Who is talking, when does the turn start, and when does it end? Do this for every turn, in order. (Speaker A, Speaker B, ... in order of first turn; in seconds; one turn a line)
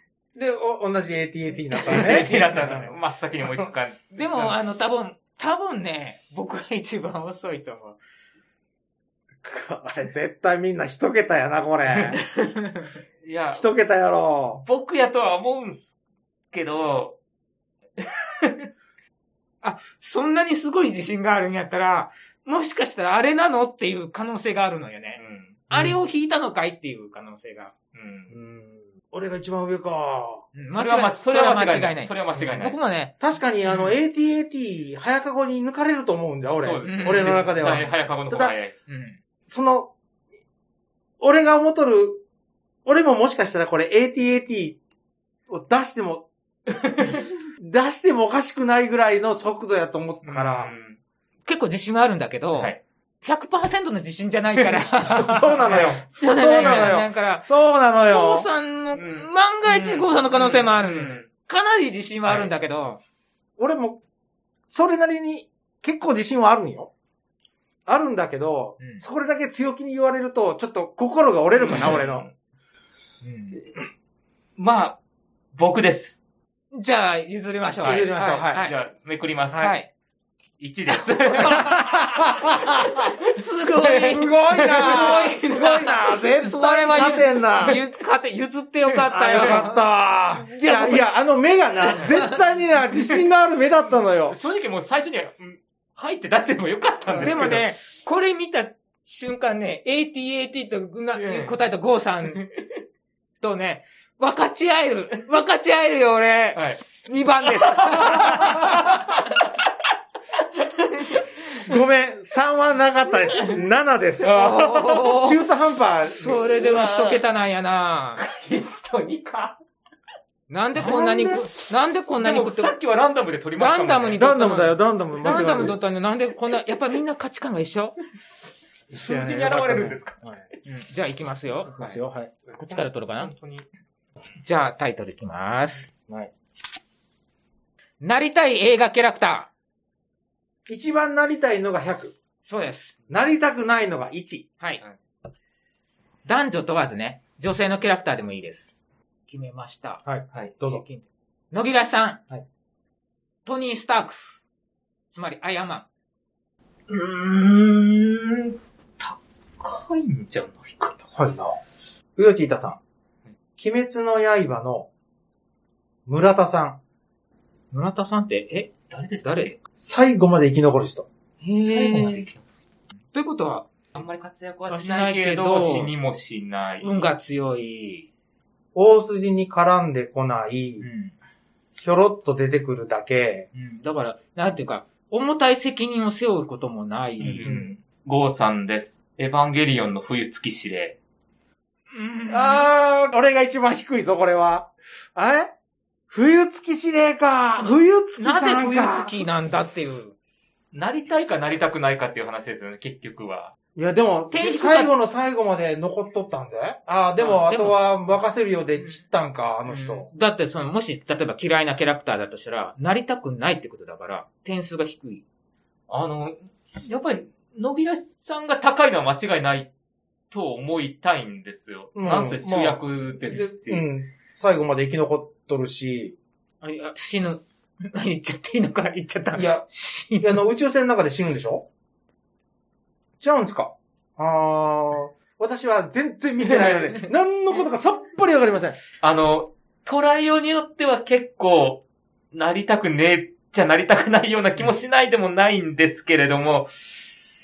Speaker A: 0.3-2.9
Speaker B: 1.8-4.6
Speaker C: 4.1-8.0
Speaker A: 9.4-12.2
Speaker C: 12.2-12.9
Speaker B: 13.2-13.7
Speaker A: 13.5-14.6
Speaker B: 14.6-16.0
Speaker B: 16.5-17.2
Speaker B: 18.0-18.7
Speaker C: 19.6-27.7
Speaker B: 25.2-25.7
Speaker A: 25.7-26.0
Speaker B: 27.9-28.4
Speaker A: 28.3-30.5
Speaker C: 30.6-33.1
Speaker B: 30.7-32.8
Speaker A: 33.2-38.5
Speaker C: 33.7-34.0
Speaker B: 36.6-38.8
Speaker C: 36.9-37.5
Speaker C: 38.9-39.2
Speaker A: 39.5-39.9
Speaker A: 41.2-42.2
Speaker A: 42.9-44.8
Speaker A: 45.5-46.3
Speaker B: 46.7-47.3
Speaker A: 47.6-50.7
Speaker B: 50.2-51.0
Speaker C: 51.5-57.5
Speaker B: 52.5-52.8
Speaker B: 54.6-54.9
Speaker A: 55.0-58.5
Speaker B: 55.4-57.0
Speaker C: 58.1-63.0
Speaker B: 58.9-61.3
Speaker A: 63.6-64.0
Speaker A: 64.7-66.9
Speaker A: 67.9-72.2
Speaker B: 71.6-72.3
Speaker C: 73.2-73.6
Speaker B: 74.6-75.0
Speaker B: 75.5-76.2
Speaker C: 76.7-78.7
Speaker B: 77.8-79.7
Speaker A: 77.8-78.7
Speaker C: 79.5-79.9
Speaker B: 80.6-83.2
Speaker A: 81.3-82.9
Speaker C: 81.4-81.9
Speaker C: 83.2-89.8
Speaker A: 83.8-87.8
Speaker B: 84.7-85.1
Speaker B: 88.9-89.6
Speaker A: 89.1-94.4
Speaker C: 90.4-91.1
Speaker C: 91.9-92.4
Speaker B: 94.2-97.7
Speaker A: 97.1-97.6
Speaker C: 97.2-102.4
Speaker B: 101.2-101.5
Speaker B: 102.3-102.6
Speaker C: 103.4-109.3
Speaker B: 106.5-106.8
Speaker B: 107.5-109.5
Speaker C: 111.0-111.2
Speaker A: 111.7-114.4
Speaker C: 114.2-115.4
Speaker B: 114.2-115.2
Speaker A: 115.1-116.5
Speaker C: 116.1-118.2
Speaker B: 116.5-117.2
Speaker B: 118.2-119.6
Speaker C: 120.5-122.7
Speaker A: 120.8-121.5
Speaker B: 122.2-124.2
Speaker C: 123.6-128.0
Speaker A: 124.2-125.8
Speaker B: 125.2-125.5
Speaker B: 128.9-130.2
Speaker A: 128.9-130.4
Speaker C: 130.7-131.7
Speaker A: 131.7-132.5
Speaker C: 132.5-133.3
Speaker B: 132.7-133.7
Speaker C: 134.4-135.9
Speaker C: 138.0-139.5
Speaker A: 140.7-142.2
Speaker C: 142.4-143.0
Speaker A: 143.1-144.5
Speaker C: 146.2-148.7
Speaker C: 149.3-150.0
Speaker A: 150.0-150.8
Speaker C: 150.7-152.2
Speaker C: 153.4-154.3
Speaker C: 155.1-155.9
Speaker B: 156.9-161.0
Speaker A: 161.2-161.6
Speaker A: 162.2-162.8
Speaker A: 163.6-164.9
Speaker A: 166.1-166.8
Speaker C: 167.7-168.7
Speaker B: 168.9-169.6
Speaker C: 169.2-169.5
Speaker A: 169.8-171.1
Speaker C: 171.4-172.2
Speaker B: 171.6-172.4
Speaker C: 173.1-173.7
Speaker B: 173.9-176.9
Speaker C: 174.7-175.9
Speaker C: 176.8-178.1
Speaker A: 178.8-180.9
Speaker C: 180.8-181.2
Speaker A: 181.8-183.5
Speaker C: 183.5-187.5
Speaker B: 187.2-191.0
Speaker C: 191.9-192.7
Speaker A: 192.3-195.5
Speaker A: 196.1-199.2
Speaker C: 198.2-200.2
Speaker B: 200.7-203.5
Speaker A: 203.8-210.1
Speaker C: 204.3-204.9
Speaker C: 207.2-207.8
Speaker C: 209.7-215.2
Speaker B: 215.9-219.7
Speaker B: 220.3-223.8
Speaker A: 222.0-226.2
Speaker C: 226.6-230.4
Speaker A: 229.4-229.7
Speaker A: 230.2-231.7
Speaker A: 233.2-238.8
Speaker B: 236.4-236.8
Speaker B: 239.0-247.0